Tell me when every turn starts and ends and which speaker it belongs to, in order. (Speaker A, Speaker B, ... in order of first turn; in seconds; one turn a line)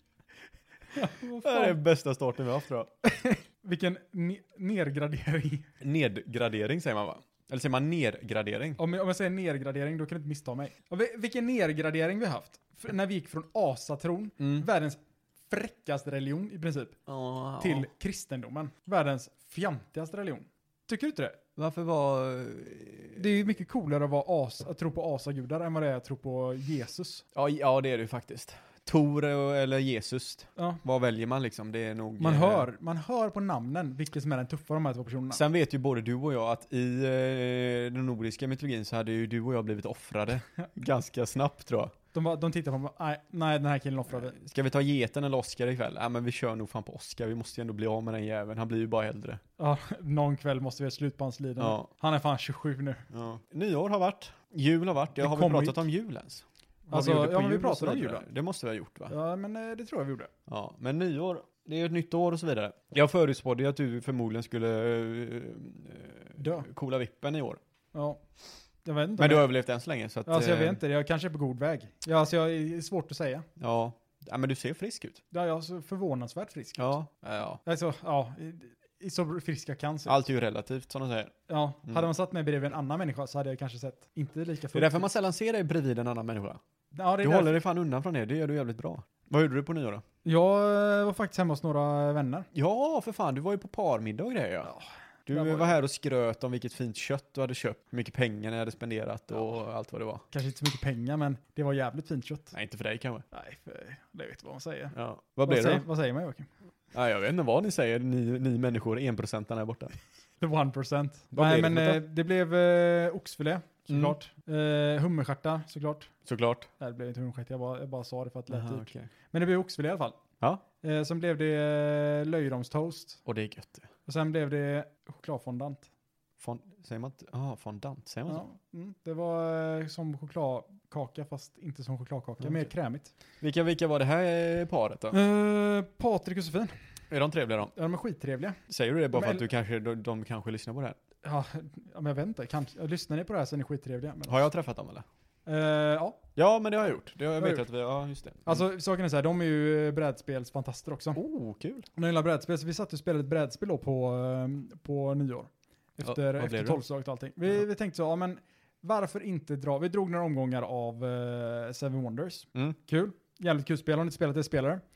Speaker A: 0.9-1.8
Speaker B: 1.4-2.9
Speaker A: 3.0-5.7
Speaker B: 5.8-8.8
Speaker A: 8.8-17.0
Speaker B: 17.1-17.9
Speaker A: 17.6-21.4
Speaker B: 21.6-23.2
Speaker A: 23.1-27.2
Speaker B: 27.3-32.6
Speaker A: 32.2-35.4
Speaker B: 35.3-41.9
Speaker A: 42.1-44.4
Speaker B: 44.3-49.4
Speaker A: 49.6-53.0
Speaker B: 51.6-51.9
Speaker B: 53.1-59.1
Speaker A: 55.2-55.8
Speaker A: 56.9-58.2
Speaker A: 59.1-60.3
Speaker B: 60.5-67.6
Speaker A: 66.4-66.7
Speaker A: 67.9-68.2
Speaker A: 68.8-69.5
Speaker B: 69.2-70.8
Speaker A: 70.2-73.5
Speaker B: 73.6-75.2
Speaker A: 75.3-76.9
Speaker B: 76.8-77.6
Speaker A: 77.6-80.2
Speaker B: 80.1-81.3
Speaker A: 81.5-85.1
Speaker B: 84.7-86.6
Speaker A: 86.9-87.6
Speaker B: 87.2-90.0
Speaker A: 90.2-92.5
Speaker B: 92.5-94.7
Speaker A: 94.6-95.8
Speaker B: 95.3-100.2
Speaker A: 100.3-102.5
Speaker B: 102.5-103.2
Speaker A: 103.3-106.5
Speaker B: 104.9-105.8
Speaker B: 106.9-110.0
Speaker A: 110.4-116.1
Speaker B: 111.3-112.0
Speaker B: 113.9-114.1
Speaker B: 116.2-116.7
Speaker A: 116.8-120.2
Speaker B: 118.5-119.1
Speaker A: 120.8-123.2
Speaker B: 123.2-123.9
Speaker A: 124.0-125.9
Speaker B: 126.4-128.4
Speaker A: 128.3-133.1
Speaker B: 132.4-132.7
Speaker B: 133.4-135.2
Speaker A: 135.1-136.7
Speaker B: 137.1-137.7
Speaker A: 137.7-138.6
Speaker B: 138.7-141.0
Speaker A: 139.1-139.4
Speaker A: 141.2-144.4
Speaker B: 144.3-145.1
Speaker A: 145.4-146.2
Speaker B: 146.3-148.6
Speaker A: 147.4-147.6
Speaker A: 148.4-151.2
Speaker B: 151.1-151.9
Speaker A: 151.9-164.8
Speaker B: 156.0-156.8